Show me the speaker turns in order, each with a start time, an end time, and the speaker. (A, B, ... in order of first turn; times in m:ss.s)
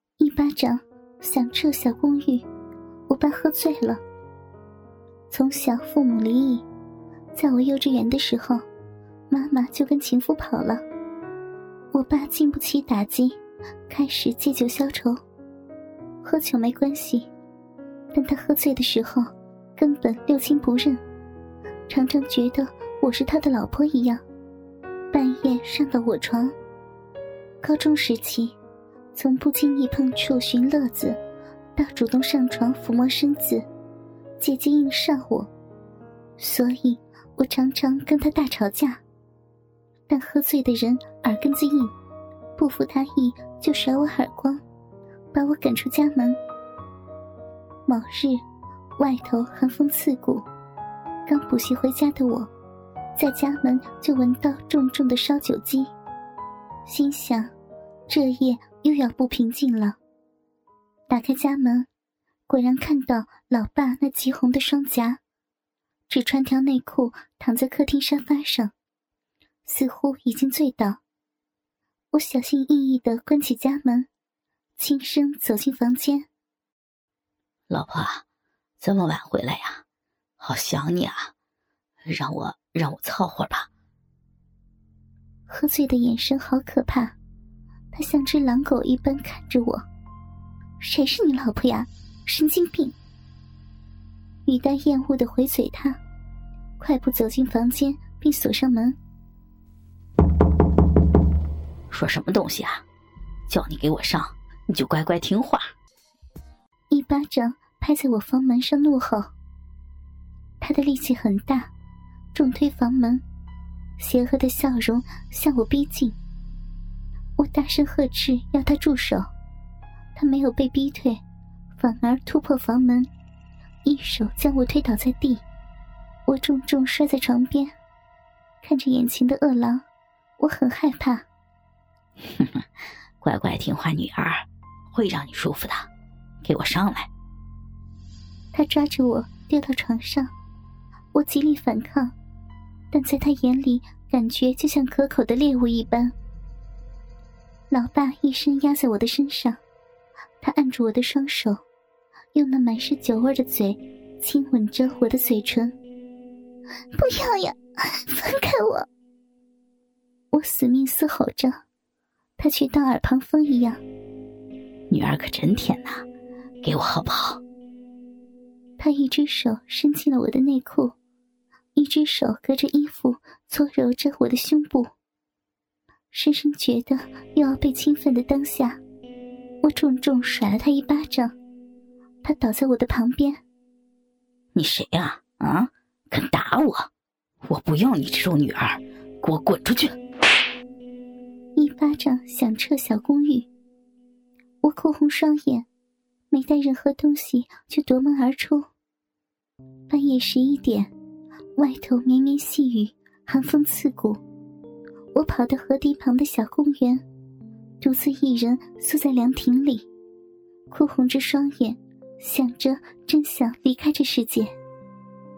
0:00.2-0:02.4 A
0:03.1-0:04.0 A
0:05.3-0:06.6 A
0:07.3-0:08.6 A
0:09.3-0:10.8 A
0:11.9-0:13.4 A
0:13.9-0:15.2 A
0:16.2-0:17.3 A
0:18.1-0:21.0 A
0:21.9-0:24.2 A
0:25.1-0:26.5 A
0:27.6-0:28.5 A
0:29.1-0:31.2 A
0:31.8-0:33.6 A
0:34.4-0:35.5 A
0:36.4-0:39.0 A
0:40.1-0:41.9 A
0:42.6-0:44.6 A
0:45.3-0:46.4 A
0:47.9-0:48.4 A
0:49.0-0:50.4 A
0:51.3-0:52.5 A
0:53.2-0:55.9 A
0:56.8-0:57.5 A
0:58.1-1:00.0 A
1:01.1-1:01.9 A
1:02.5-1:05.2 A
1:06.1-1:08.7 A
1:09.6-1:11.0 A
1:12.1-1:14.1 A
1:14.8-1:16.3 A
1:17.7-1:18.2 B
1:18.8-1:19.8 B
1:20.4-1:21.3 B
1:22.0-1:23.7 B
1:25.5-1:27.1 A
1:27.9-1:29.8 A
1:30.8-1:32.9 A
1:34.4-1:36.0 A
1:36.8-1:39.0 A
1:41.9-1:42.8 B
1:43.5-1:45.6 B
1:46.9-1:49.3 A
1:50.6-1:51.7 A
1:52.3-1:53.2 A
1:54.0-1:56.2 A
1:57.4-1:59.2 A
2:00.1-2:01.2 A
2:01.8-2:03.1 A
2:03.8-2:05.4 A
2:06.3-2:07.7 A
2:08.6-2:09.8 A
2:10.4-2:11.2 A
2:12.2-2:12.6 B
2:13.2-2:15.9 B
2:16.4-2:17.1 B
2:18.5-2:20.3 A
2:21.1-2:22.1 A
2:22.9-2:26.1 A
2:27.7-2:29.6 A
2:30.4-2:31.6 A
2:32.3-2:35.8 A
2:36.9-2:38.8 A
2:40.3-2:41.5 A
2:42.4-2:43.8 A
2:44.9-2:46.0 B
2:46.6-2:47.4 B
2:48.8-2:50.9 A
2:51.7-2:54.9 A
2:56.1-2:58.8 A
2:59.6-3:01.3 A
3:02.2-3:03.4 A
3:04.5-3:06.9 B
3:07.4-3:09.9 B
3:11.6-3:13.5 A
3:14.6-3:15.6 A
3:16.3-3:18.7 A
3:19.9-3:20.9 A
3:21.6-3:24.2 A
3:25.1-3:27.0 A
3:27.8-3:29.8 A
3:30.7-3:34.5 A